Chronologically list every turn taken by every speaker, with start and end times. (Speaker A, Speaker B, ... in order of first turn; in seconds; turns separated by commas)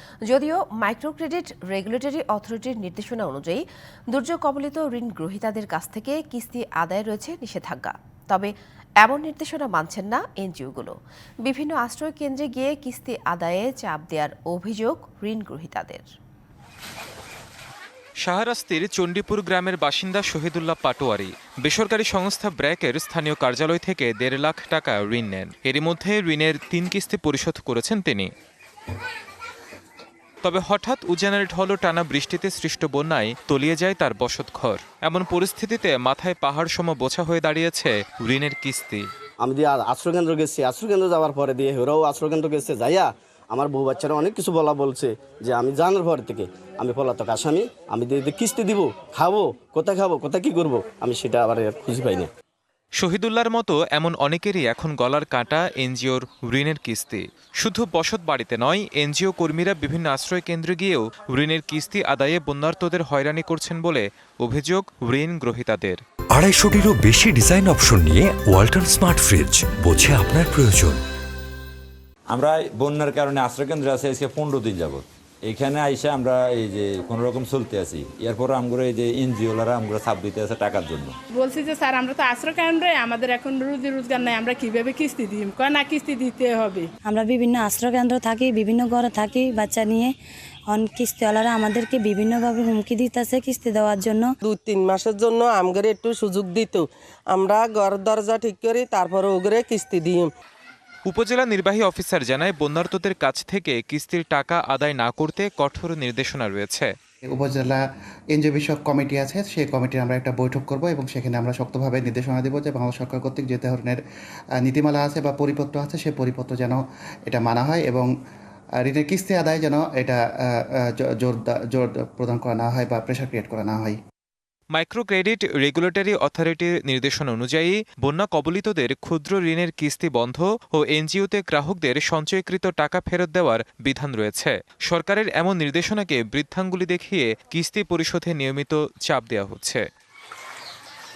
Speaker A: 0.3-16.0, Speaker B: 18.2-28.3, Speaker B: 30.4-39.0, Speaker C: 39.4-52.3, Speaker B: 53.0-66.0, Speaker D: 66.3-71.0, Speaker E: 72.3-81.1, Speaker F: 81.3-86.9, Speaker G: 87.0-90.1, Speaker G: 90.7-94.3, Speaker H: 94.4-100.3, Speaker B: 101.1-106.9, Speaker I: 107.3-107.8, Speaker I: 108.3-114.0, Speaker I: 114.6-118.1, Speaker I: 118.8-124.0, Speaker B: 124.7-139.8